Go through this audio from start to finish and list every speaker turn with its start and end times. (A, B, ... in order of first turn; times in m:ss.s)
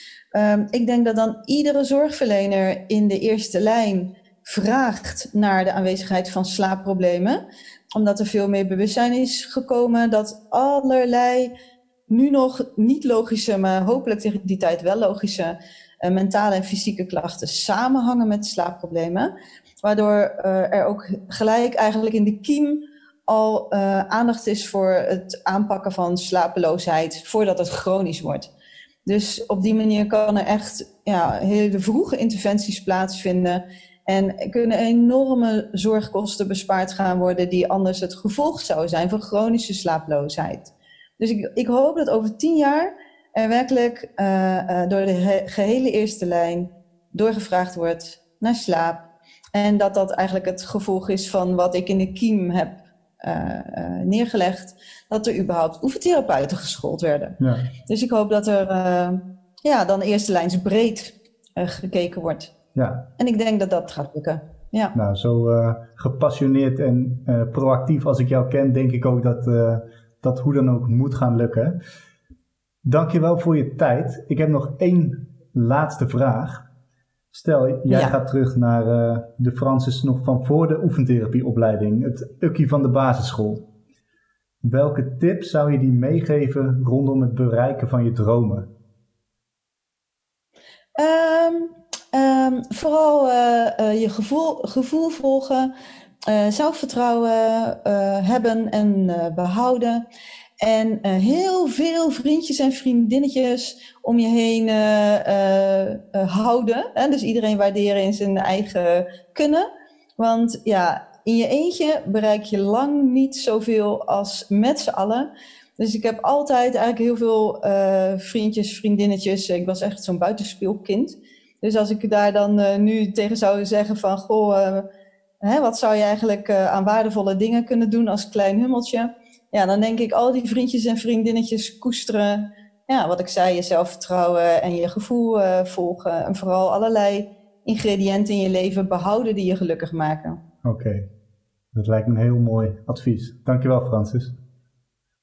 0:00.3-0:07.4 A
0:07.9-0:11.5 A
0:12.1-0:19.3 A
0:19.8-0:28.5 A
0:29.0-0:49.0 A
0:49.5-1:02.5 A
0:57.4-0:57.7 B
1:02.7-1:03.1 B
1:03.2-1:04.9 A
1:04.9-1:11.8 B
1:12.8-1:16.6 B
1:17.3-1:23.6 B
1:17.9-1:18.2 A
1:24.6-1:28.7 B
1:31.0-1:35.7 A
1:36.3-1:40.0 A
1:40.6-1:49.6 A
1:50.2-1:55.3 A
1:55.8-2:04.8 A
2:05.4-2:20.4 A
2:20.6-2:21.1 B
2:21.7-2:24.4 B